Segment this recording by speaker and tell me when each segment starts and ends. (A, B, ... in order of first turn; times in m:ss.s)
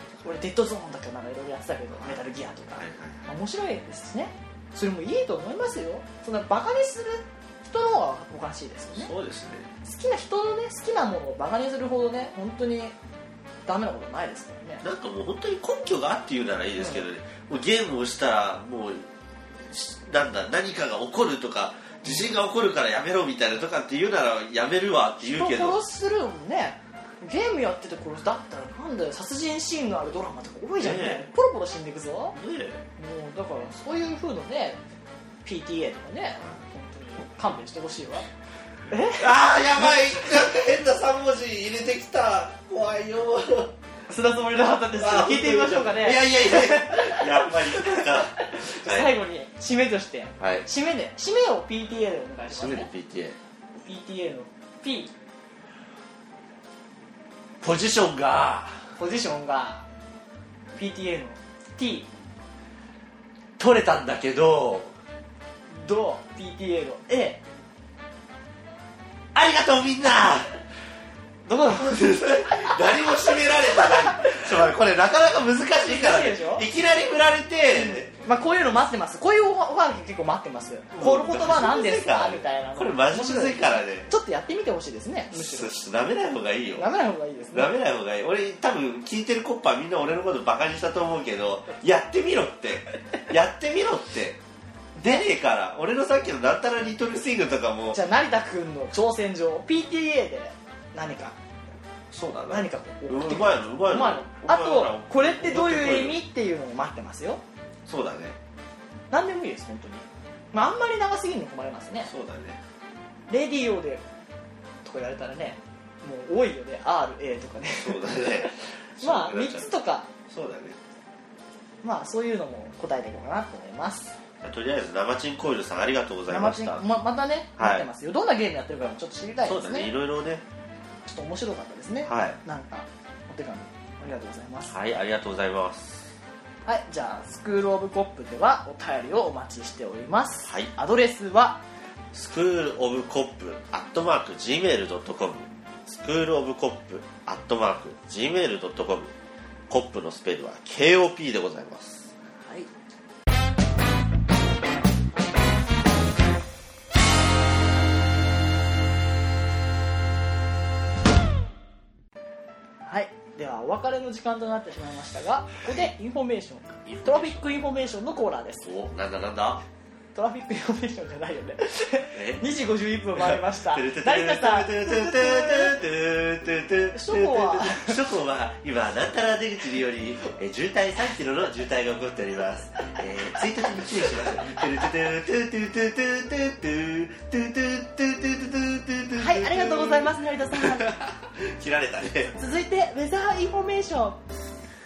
0:00.2-0:09.1 A
0:02.8-0:03.2 B
0:08.9-0:09.7 B
0:09.8-0:12.9 A
0:13.6-0:14.8 A
0:14.8-0:25.8 B
0:16.8-0:17.0 A
0:25.2-0:32.4 A
0:30.8-0:31.3 B
0:32.3-0:32.8 B
0:33.0-0:34.8 A
0:35.4-0:38.3 A
0:38.9-0:39.3 A
0:39.2-0:43.7 B
0:44.1-0:52.9 A
0:44.9-0:49.2 B
0:50.4-0:50.7 B
0:52.5-0:53.4 B
0:53.8-0:55.1 A
0:57.6-0:58.9 B
0:59.0-0:59.9 A
1:00.7-1:02.1 A
1:03.6-1:05.0 B
1:05.7-1:07.4 A
1:09.3-1:10.5 B
1:11.5-1:12.8 A
1:11.7-1:18.1 B
1:13.7-1:14.4 A
1:15.8-1:16.6 A
1:17.7-1:25.8 A
1:20.9-1:24.1 B
1:25.3-1:27.0 B
1:26.8-1:27.7 A
1:27.5-1:34.4 B
1:35.0-1:35.2 A
1:35.0-1:38.0 B
1:37.9-1:41.4 A
1:42.1-1:46.2 B
1:42.5-1:47.4 A
1:47.8-1:48.4 B
1:49.1-1:52.1 A
1:52.0-1:52.6 B
1:53.3-1:54.0 A
1:54.8-2:00.1 A
1:57.8-1:59.7 B
2:00.3-2:00.8 B
2:01.8-2:04.2 A
2:04.4-2:06.8 B
2:06.3-2:09.9 A
2:07.6-2:07.9 B
2:09.4-2:10.4 B
2:11.0-2:14.7 A
2:12.0-2:12.4 B
2:14.7-2:16.1 B
2:16.6-2:21.6 A
2:20.4-2:20.7 B
2:22.1-2:29.1 B
2:29.7-2:32.1 B
2:32.4-2:32.7 A
2:42.8-2:48.7 A
2:46.8-2:47.4 B
2:48.6-2:49.6 B
2:50.1-2:55.8 A
2:52.1-2:52.4 B
2:53.1-3:12.3 B
2:56.9-2:58.0 A
3:09.2-3:11.0 A
3:12.2-3:14.2 A